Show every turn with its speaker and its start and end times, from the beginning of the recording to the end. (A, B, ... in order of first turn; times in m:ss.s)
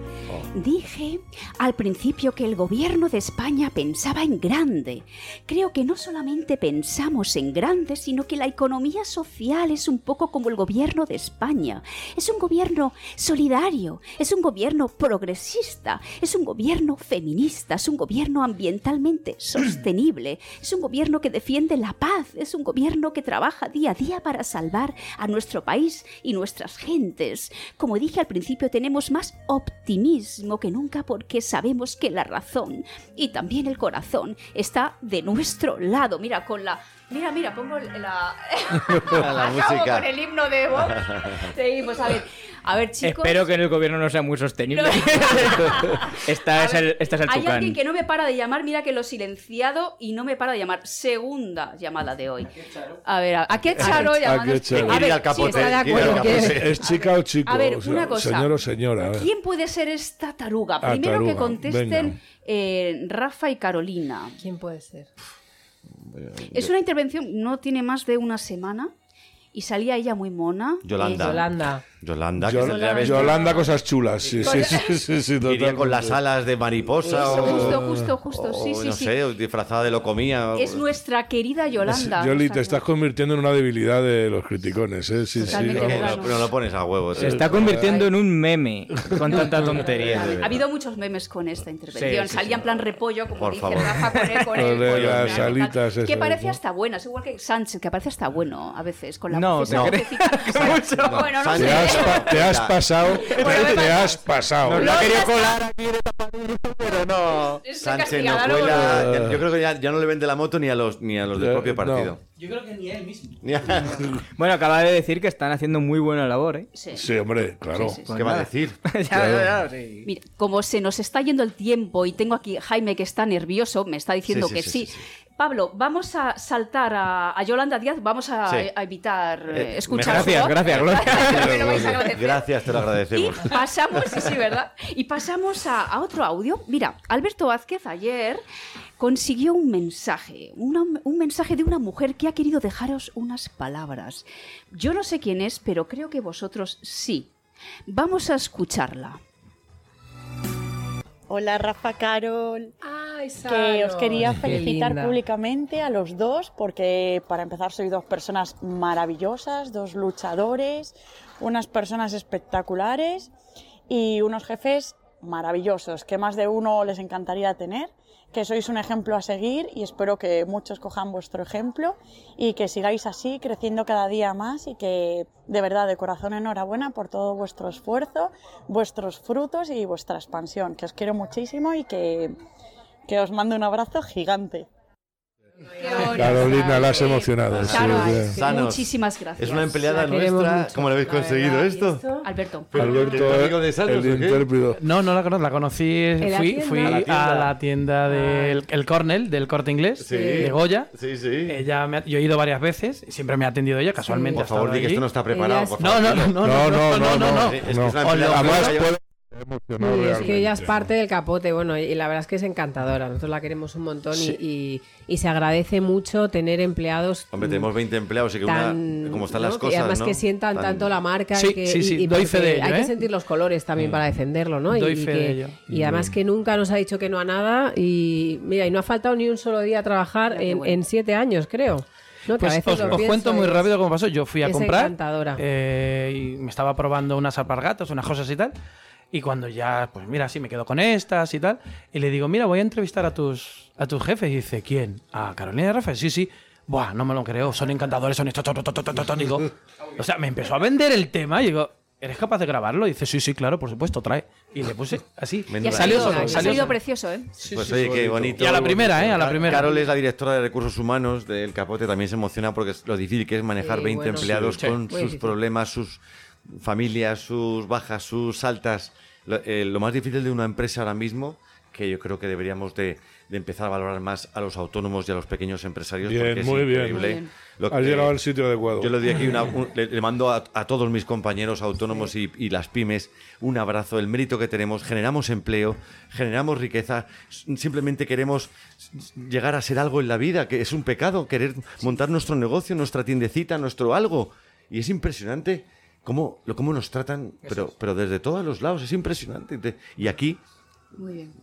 0:00.5-0:43.5 A
0:39.0-0:40.1 B
0:40.8-0:41.5 B
0:43.0-0:47.8 C
0:44.7-0:58.5 A
0:53.8-0:55.1 D
0:54.7-0:56.8 B
0:55.3-0:56.6 E
0:56.0-0:59.3 D
0:59.1-1:04.4 A
1:00.8-1:02.1 D
1:04.4-1:05.1 E
1:06.0-1:06.7 B
1:06.5-1:08.9 A
1:09.5-1:11.5 A
1:10.8-1:11.5 B
1:11.2-1:11.8 E
1:12.0-1:13.6 B
1:12.4-1:16.2 D
1:12.6-1:13.7 A
1:14.4-1:15.0 A
1:15.4-1:20.8 B
1:17.0-1:19.1 A
1:17.2-1:18.1 D
1:20.6-1:22.8 A
1:21.8-1:26.3 D
1:25.4-1:26.5 A
1:25.4-1:27.8 B
1:27.2-1:28.0 D
1:27.2-1:30.5 C
1:27.8-1:28.1 A
1:28.9-1:29.2 D
1:29.2-1:42.4 A
1:30.0-1:30.5 B
1:31.9-1:32.7 C
1:33.4-1:35.6 B
1:34.6-1:36.6 D
1:39.3-1:41.4 C
1:41.3-1:42.9 B
1:41.6-1:45.1 D
1:43.2-1:44.2 A
1:43.3-1:44.0 C
1:44.6-1:47.6 C
1:44.7-1:45.6 A
1:47.3-1:49.1 A
1:47.8-1:52.2 B
1:48.6-1:49.4 D
1:51.4-1:52.1 D
1:52.5-1:53.2 F
1:53.4-1:54.1 B
1:54.4-1:56.7 C
1:56.7-1:57.0 A
1:56.9-1:58.0 D
1:57.7-1:58.1 A
1:58.0-2:00.1 C
1:58.1-1:58.8 B
1:59.1-1:59.5 D
2:00.0-2:12.5 A
2:04.3-2:05.0 B
2:09.5-2:13.6 B
2:10.0-2:11.8 C
2:13.1-2:18.4 A
2:19.0-2:27.3 A
2:27.9-2:29.2 A
2:31.3-2:32.7 G
2:32.8-2:35.2 E
2:33.5-2:43.3 G
2:43.9-3:02.3 G
3:03.1-3:04.7 G
3:05.8-3:09.9 A
3:06.0-3:08.3 D
3:07.5-3:12.1 B
3:09.8-3:12.3 E
3:12.2-3:12.7 A
3:12.7-3:14.5 B
3:12.8-3:14.8 D
3:12.8-3:13.1 E
3:14.8-3:20.9 F
3:16.2-3:17.3 E
3:16.8-3:17.4 B
3:18.0-3:18.6 E
3:20.0-3:21.6 B
3:20.1-3:20.5 E
3:21.4-3:25.0 F
3:24.0-3:24.4 E
3:24.3-3:28.9 B
3:25.3-3:25.8 E
3:25.8-3:28.8 F
3:26.4-3:30.9 D
3:29.8-3:37.7 E
3:37.3-3:41.0 B
3:38.4-3:53.7 E
3:41.3-3:42.9 F
3:44.7-3:45.6 F
3:45.7-3:46.1 D
3:50.3-3:50.8 A
3:52.4-3:58.5 F
3:54.4-3:55.4 E
3:59.1-4:16.7 F
4:15.5-4:16.6 B
4:15.6-4:17.3 A
4:15.8-4:16.8 E
4:17.4-4:38.2 B
4:17.4-4:19.5 D
4:18.3-4:19.7 F
4:23.6-4:25.3 E
4:36.0-4:37.0 D
4:36.9-4:37.3 A
4:37.7-4:38.9 D
4:38.8-5:00.4 B
4:57.4-4:57.7 C
5:00.9-5:01.3 A